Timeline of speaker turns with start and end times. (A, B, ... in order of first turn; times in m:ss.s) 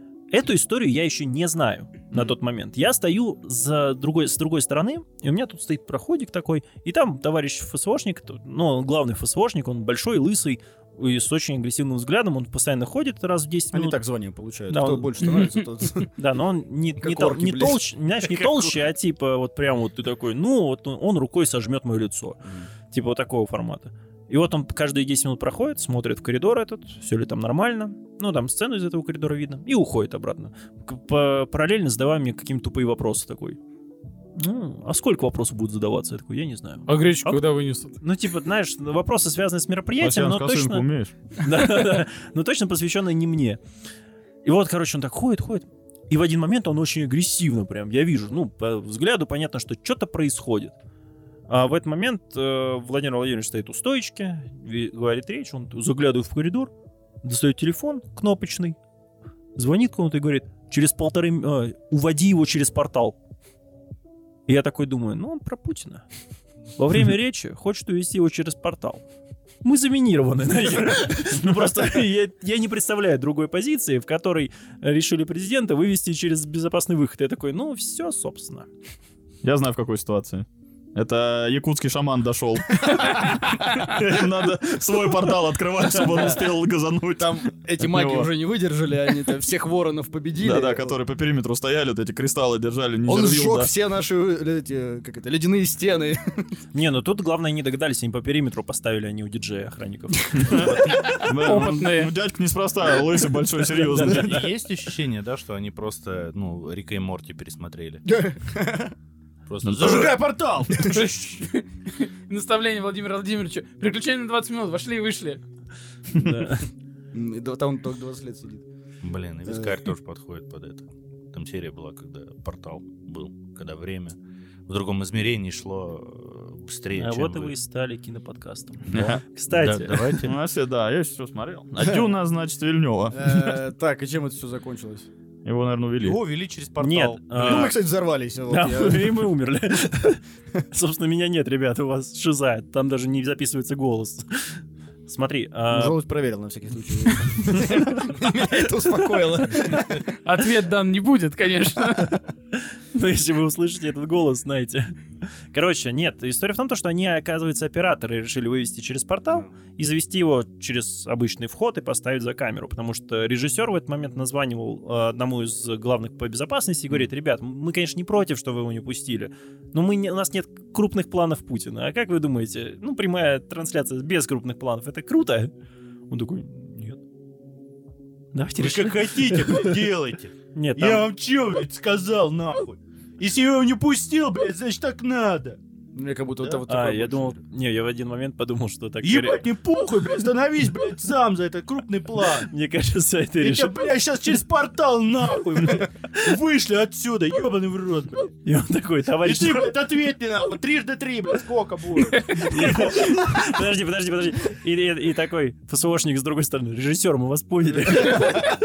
0:00.3-0:14.0 A
0:13.7-0:16.1 B
0:14.7-0:15.4 A
0:16.1-0:33.6 A
0:17.0-0:17.9 B
0:34.4-0:37.4 A
0:36.9-0:38.0 C
0:38.0-0:43.6 A
0:40.0-0:41.1 D
0:44.4-0:50.7 A
0:51.5-0:56.7 A
0:57.2-0:58.8 A
0:59.6-1:03.2 A
1:04.5-1:06.0 A
1:06.8-1:09.0 A
1:09.6-1:18.7 A
1:19.4-1:28.3 D
1:26.0-1:26.4 B
1:27.2-1:31.0 B
1:30.4-1:33.7 D
1:33.1-1:36.5 B
1:36.7-1:41.2 A
1:40.4-1:44.5 D
1:41.3-1:42.1 C
1:43.7-1:44.3 A
1:44.0-1:48.0 E
1:48.1-1:48.9 B
1:49.5-1:51.0 E
1:49.6-1:50.0 D
1:50.8-1:51.6 C
1:52.3-1:55.4 C
1:56.1-1:56.7 A
1:57.1-1:58.6 B
1:59.0-2:04.2 E
1:59.4-1:59.8 B
2:04.7-2:07.5 E
2:06.9-2:10.2 A
2:08.9-2:09.2 D
2:08.9-2:10.3 E
2:10.2-2:13.6 D
2:13.1-2:15.1 B
2:15.4-2:16.2 D
2:16.0-2:17.7 E
2:16.8-2:17.8 A
2:17.4-2:19.2 B
2:18.5-2:26.0 A
2:25.7-2:30.1 B
2:30.2-2:32.2 C
2:32.6-2:34.9 A
2:35.5-2:55.5 A
2:56.1-2:57.0 A
2:58.3-2:59.8 A
2:58.6-3:05.6 E
3:00.5-3:01.1 A
3:05.9-3:07.4 B
3:06.7-3:09.4 A
3:09.0-3:12.5 E
3:12.4-3:13.8 A
3:13.4-3:18.3 E
3:18.4-3:19.7 A
3:19.2-3:22.8 E
3:22.3-3:28.5 A